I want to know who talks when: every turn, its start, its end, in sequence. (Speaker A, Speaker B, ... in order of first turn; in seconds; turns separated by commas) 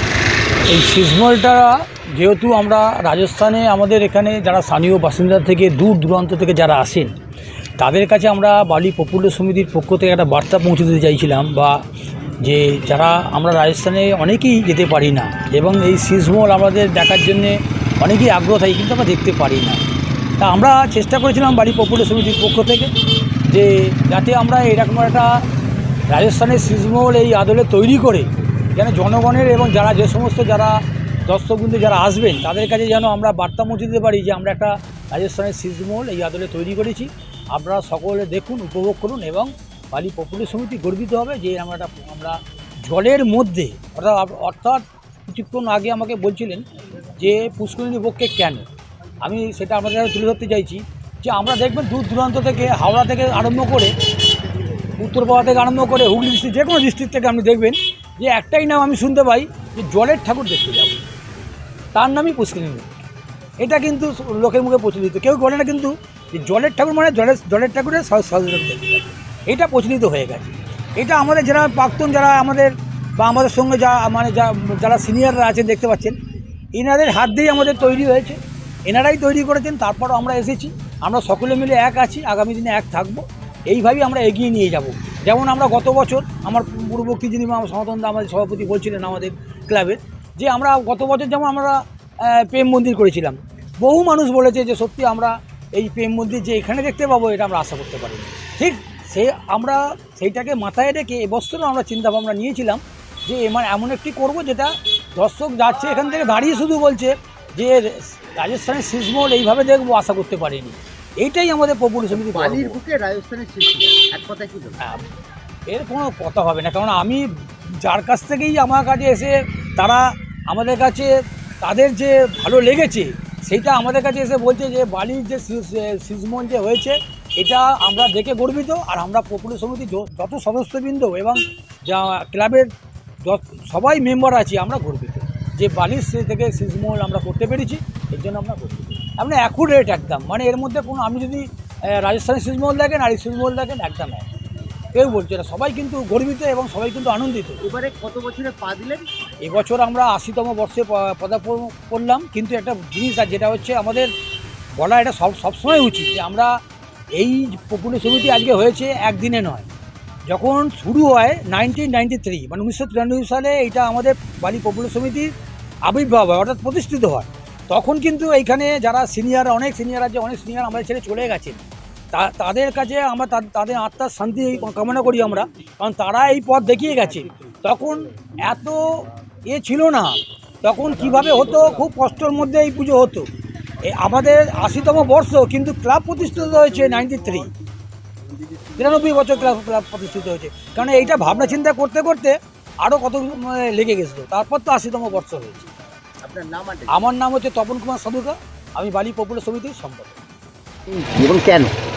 Speaker A: 0.7-7.1, Speaker A: 7.8-11.8, Speaker A: 12.4-19.8, Speaker A: 20.4-22.9, Speaker A: 23.4-25.4, Speaker A: 26.1-48.6, Speaker A: 49.2-53.9, Speaker A: 55.0-61.0, Speaker A: 61.9-62.9, Speaker A: 63.6-76.2, Speaker A: 76.7-112.8, Speaker B: 112.1-114.8, Speaker A: 114.8-115.0, Speaker A: 115.7-132.7, Speaker A: 133.2-144.3, Speaker A: 144.9-147.6, Speaker B: 147.6-149.1, Speaker A: 149.4-154.1, Speaker A: 154.8-156.5, Speaker A: 157.1-159.7, Speaker A: 160.3-165.3, Speaker A: 165.8-171.6, Speaker A: 172.1-183.3, Speaker A: 183.8-187.5, Speaker B: 188.5-188.7, Speaker A: 188.8-195.7, Speaker B: 196.2-197.1, Speaker A: 196.9-200.2, Speaker B: 200.9-201.8